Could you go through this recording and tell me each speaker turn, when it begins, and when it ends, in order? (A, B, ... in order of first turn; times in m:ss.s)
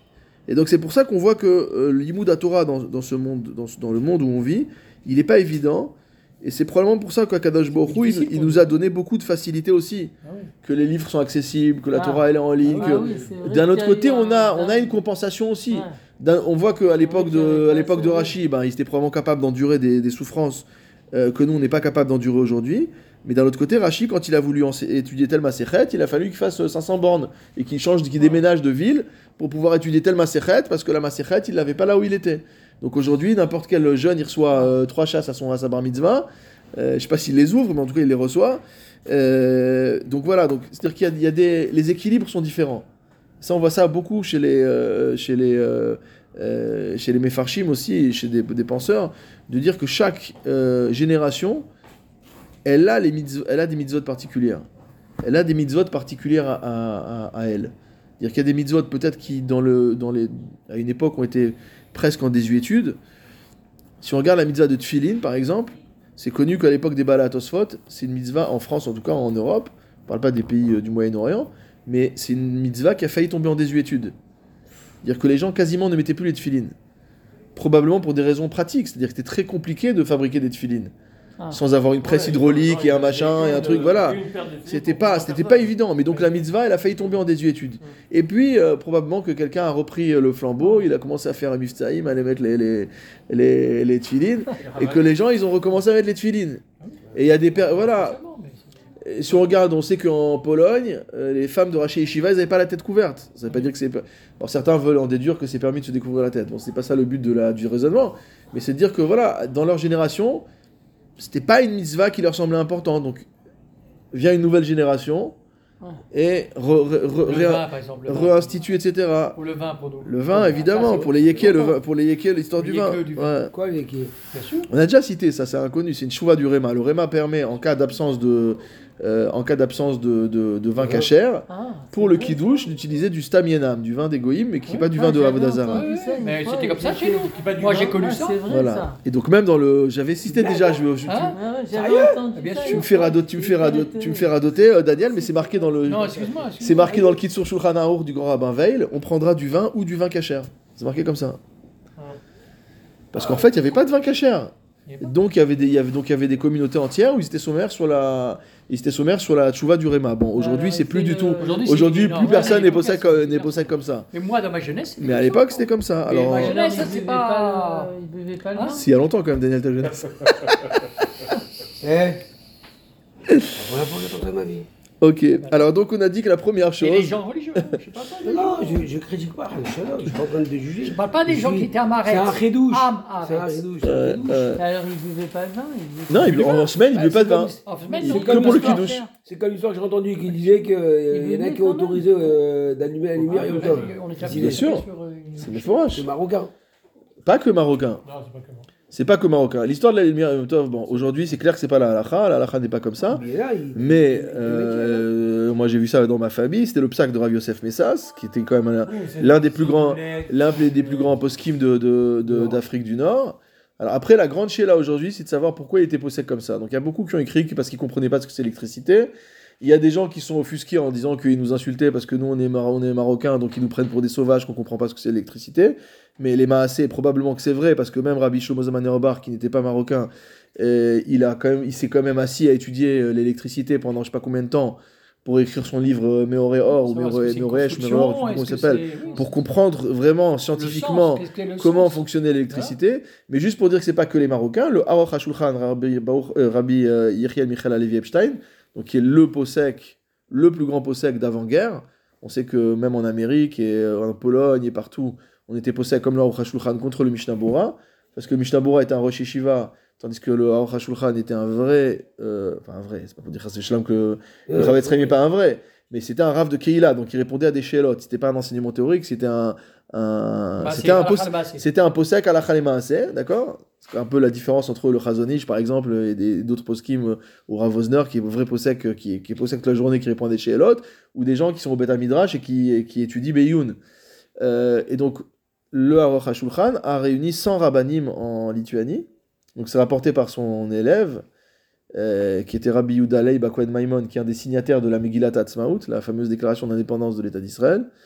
0:00.5-0:42.9 A
0:07.8-0:08.8 B
0:10.2-0:10.5 B
0:11.9-0:14.9 C
0:12.7-0:13.0 B
0:15.7-0:16.0 C
0:17.0-0:18.3 C
0:43.4-0:51.7 A
0:52.6-0:54.7 A
0:55.2-1:03.0 A
1:04.0-1:14.2 A
1:15.0-1:16.8 A
1:17.6-1:20.9 A
1:21.5-1:36.6 A
1:22.0-1:27.1 D
1:30.6-1:30.9 B
1:34.5-1:35.2 D
1:37.1-1:38.2 A
1:37.5-1:38.8 B
1:39.0-1:50.4 A
1:51.2-1:53.3 A
1:54.1-1:55.4 A
1:56.1-1:59.4 A
1:57.2-1:58.5 B
1:59.4-2:01.8 B
2:00.0-2:03.5 A
2:02.6-2:03.3 B
2:03.5-2:04.2 E
2:04.3-2:04.7 B
2:04.7-2:15.8 A
2:10.8-2:11.1 E
2:11.5-2:12.3 C
2:14.7-2:18.4 B
2:15.6-2:19.0 C
2:17.3-2:18.0 D
2:18.5-2:21.4 A
2:20.3-2:20.6 E
2:21.1-2:21.4 B
2:21.3-2:24.4 C
2:21.7-2:22.2 E
2:22.3-2:22.9 B
2:22.6-2:31.4 A
2:25.0-2:26.2 C
2:25.8-2:27.2 B
2:33.1-2:44.1 A
2:34.9-2:35.2 B
2:40.4-2:47.9 B
2:40.4-2:41.0 C
2:42.3-2:42.7 D
2:42.3-2:42.8 C
2:45.0-2:46.6 A
2:46.3-2:48.9 C
2:48.5-2:48.8 B
2:48.7-2:50.6 A
2:49.8-2:50.9 D
2:51.8-2:52.2 E
2:53.3-2:53.5 A
2:53.6-2:54.7 E
2:55.0-2:57.8 A
2:56.8-2:58.9 B
2:58.2-3:04.5 E
3:00.8-3:04.5 B
3:03.8-3:04.6 A
3:04.5-3:06.7 C
3:06.1-3:09.0 A
3:06.4-3:09.0 B
3:07.0-3:07.5 E
3:07.8-3:09.1 C
3:08.0-3:14.7 E
3:11.1-3:12.2 C
3:13.2-3:13.9 D
3:13.2-3:15.8 B
3:14.2-3:14.9 A
3:15.4-3:16.1 A
3:15.9-3:16.5 E
3:17.2-3:18.0 A
3:18.0-3:18.7 D
3:18.9-3:23.2 A
3:23.1-3:25.1 E
3:23.8-4:43.8 A
3:28.9-3:31.2 D
3:32.3-3:32.6 E
3:56.7-3:59.4 B
4:00.6-4:02.8 B
4:24.5-4:25.2 E
4:30.6-4:31.6 B
4:44.4-4:51.2 A
4:51.9-4:57.9 A